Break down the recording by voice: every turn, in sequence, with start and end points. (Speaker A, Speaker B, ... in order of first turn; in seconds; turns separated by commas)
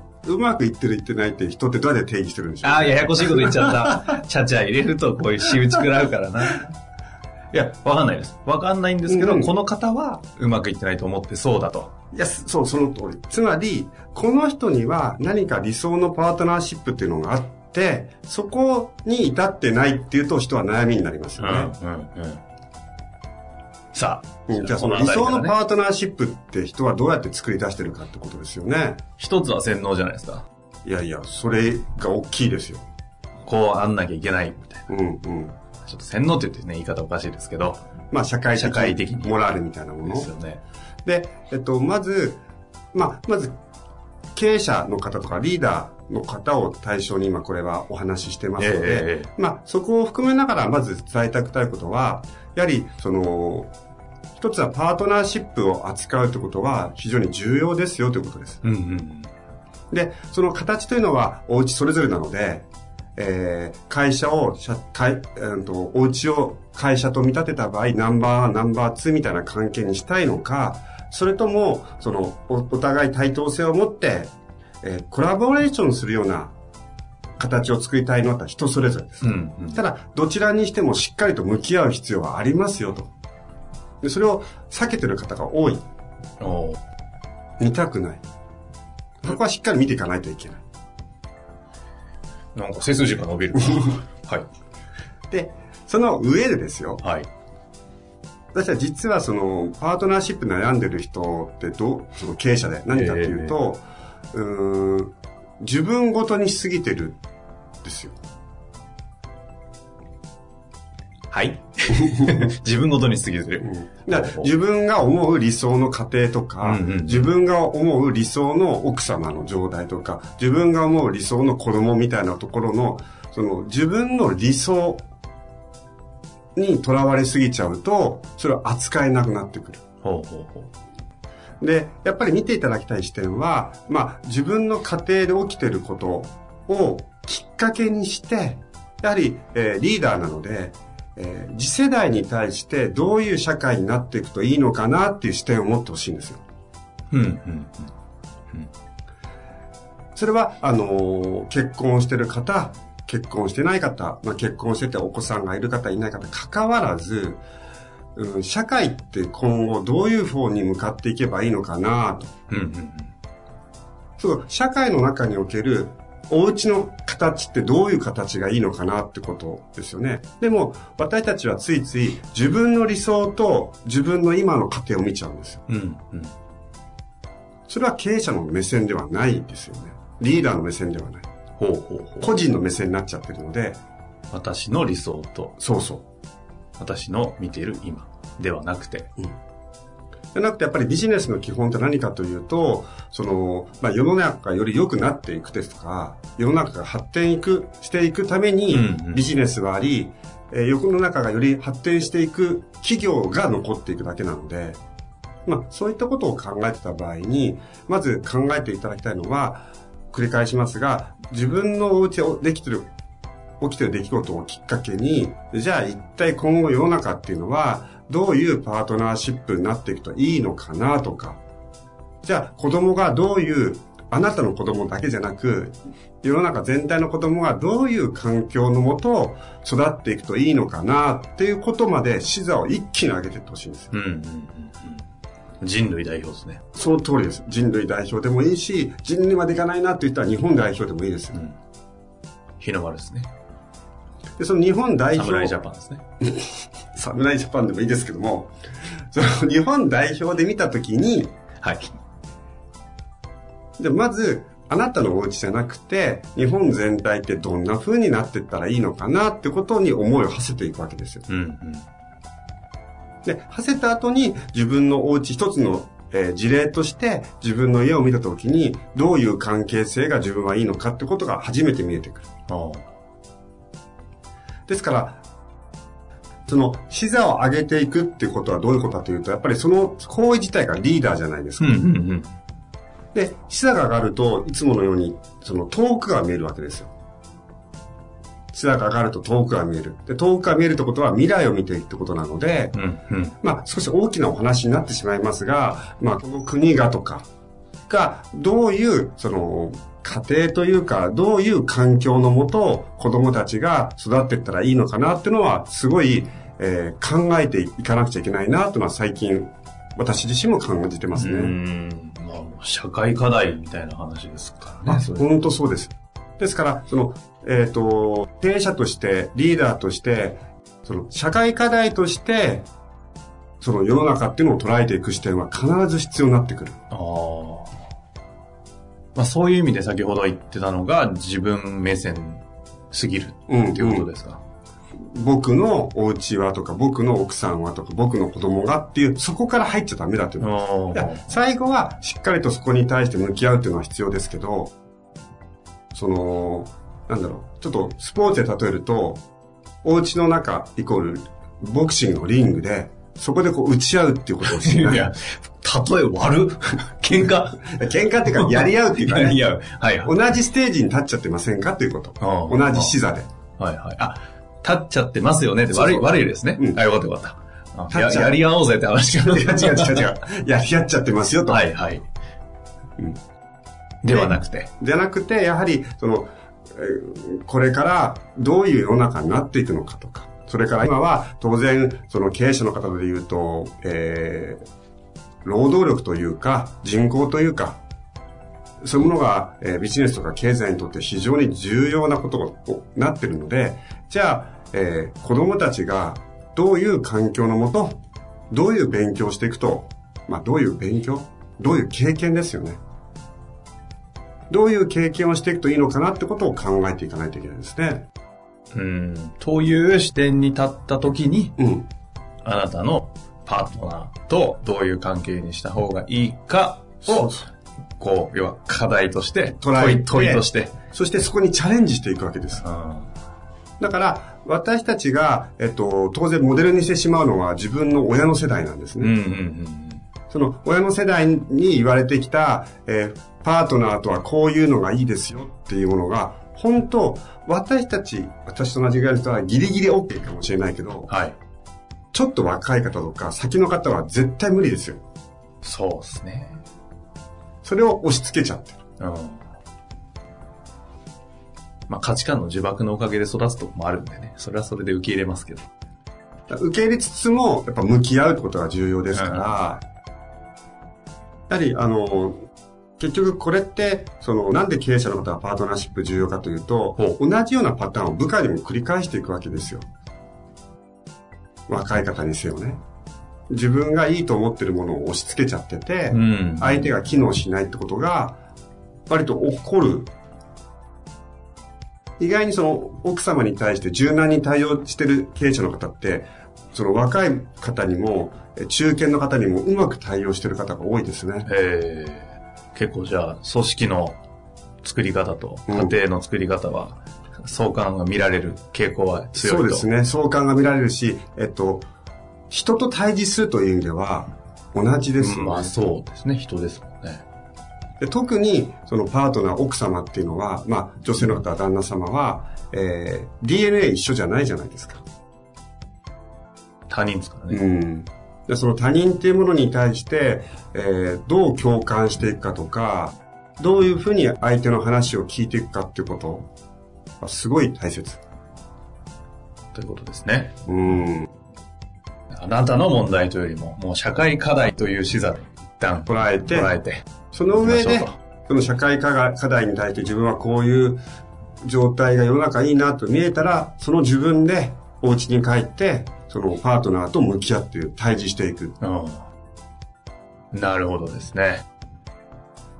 Speaker A: 0.2-3.9, Speaker B: 2.6-6.7, Speaker B: 7.5-11.9, Speaker A: 9.1-9.5, Speaker A: 12.1-21.7, Speaker B: 21.4-22.4, Speaker B: 23.9-25.5, Speaker A: 24.5-29.0, Speaker B: 29.2-30.4, Speaker A: 30.8-32.8, Speaker B: 33.4-34.8, Speaker A: 34.9-35.5, Speaker B: 35.8-37.8, Speaker A: 38.1-40.3, Speaker B: 38.5-39.3, Speaker B: 40.0-40.6, Speaker A: 41.0-42.4, Speaker A: 42.9-43.5, Speaker A: 44.3-53.7, Speaker B: 48.6-49.3, Speaker A: 54.4-58.6, Speaker B: 58.6-59.3, Speaker A: 59.9-74.3, Speaker A: 74.8-76.5, Speaker A: 77.4-83.1, Speaker B: 79.2-79.8, Speaker A: 84.0-85.8, Speaker B: 86.4-86.8, Speaker A: 87.6-88.2, Speaker A: 89.2-90.6, Speaker B: 92.5-94.5, Speaker A: 95.3-97.0, Speaker B: 97.0-97.3, Speaker A: 98.5-107.2, Speaker B: 102.9-103.5, Speaker A: 107.8-108.2, Speaker B: 111.3-114.5, Speaker A: 112.0-112.4, Speaker A: 113.6-125.0, Speaker B: 116.6-117.3, Speaker A: 126.5-129.8, Speaker B: 130.0-130.7, Speaker A: 131.6-146.4, Speaker B: 147.1-147.9, Speaker A: 150.2-157.4, Speaker A: 158.2-162.3, Speaker B: 162.5-163.1, Speaker A: 164.2-175.6, Speaker B: 175.7-176.3, Speaker A: 177.7-181.2, Speaker B: 181.6-182.3, Speaker A: 182.2-183.8, Speaker B: 184.3-185.6, Speaker A: 185.6-186.0, Speaker B: 186.8-189.1, Speaker A: 190.3-204.8, Speaker B: 198.7-199.2, Speaker A: 205.4-212.9, Speaker A: 213.6-221.4, Speaker A: 222.2-233.9, Speaker B: 233.9-235.0, Speaker B: 235.6-236.6, Speaker A: 236.7-241.4, Speaker B: 242.6-243.3, Speaker A: 244.4-245.6, Speaker B: 245.1-246.0, Speaker A: 246.2-248.5, Speaker A: 249.1-251.3, Speaker B: 251.6-251.9, Speaker A: 253.8-261.2, Speaker B: 261.3-261.8, Speaker A: 263.2-272.2, Speaker B: 272.5-272.8, Speaker A: 274.7-275.2, Speaker A: 276.5-281.8, Speaker B: 281.6-282.3, Speaker A: 283.1-286.9, Speaker A: 288.5-292.8, Speaker B: 292.7-293.3, Speaker A: 293.4-297.2, Speaker A: 297.9-311.5, Speaker B: 311.1-315.2, Speaker A: 314.9-322.7, Speaker A: 323.6-326.8, Speaker B: 326.9-327.7, Speaker B: 329.1-334.4, Speaker A: 333.5-334.1, Speaker A: 335.0-344.7, Speaker B: 340.4-341.2, Speaker A: 345.9-349.2, Speaker A: 349.8-355.1, Speaker B: 354.4-357.7, Speaker A: 357.6-359.5, Speaker B: 358.3-360.1, Speaker A: 360.0-363.3, Speaker B: 362.2-362.9, Speaker B: 363.6-370.1, Speaker A: 365.7-366.8, Speaker A: 367.9-368.4, Speaker A: 369.2-371.6, Speaker B: 371.5-372.0, Speaker B: 374.0-374.7, Speaker A: 374.1-384.6, Speaker A: 385.4-387.8, Speaker A: 388.8-398.0, Speaker A: 398.5-402.8, Speaker A: 404.5-408.1, Speaker B: 408.7-411.5, Speaker A: 411.6-411.9, Speaker B: 412.4-417.3, Speaker A: 417.1-417.5, Speaker B: 418.0-420.7, Speaker A: 419.6-422.6, Speaker B: 422.6-423.1, Speaker A: 423.8-429.1, Speaker B: 429.0-430.0, Speaker A: 430.3-441.1, Speaker B: 441.1-441.4, Speaker A: 442.1-445.0, Speaker B: 445.6-446.6, Speaker A: 447.6-448.8, Speaker B: 449.0-449.5, Speaker B: 451.9-455.7, Speaker A: 456.5-459.8, Speaker B: 459.1-459.5, Speaker A: 461.5-462.4, Speaker A: 463.0-469.8, Speaker A: 471.7-472.8, Speaker A: 473.5-478.4, Speaker B: 476.1-476.9, Speaker A: 479.1-480.1, Speaker A: 482.2-491.5, Speaker B: 491.4-494.2, Speaker B: 494.8-499.9, Speaker A: 495.7-495.9, Speaker A: 499.4-501.8, Speaker A: 502.5-505.8, Speaker B: 505.2-507.2, Speaker A: 508.0-515.0, Speaker B: 516.9-517.6, Speaker A: 517.5-526.5, Speaker A: 527.2-528.2, Speaker B: 529.7-530.5, Speaker A: 530.7-531.3, Speaker B: 532.3-537.0, Speaker A: 536.0-536.7, Speaker A: 537.3-541.0, Speaker B: 537.6-538.1, Speaker A: 541.6-548.8, Speaker B: 548.8-549.3, Speaker B: 550.5-551.6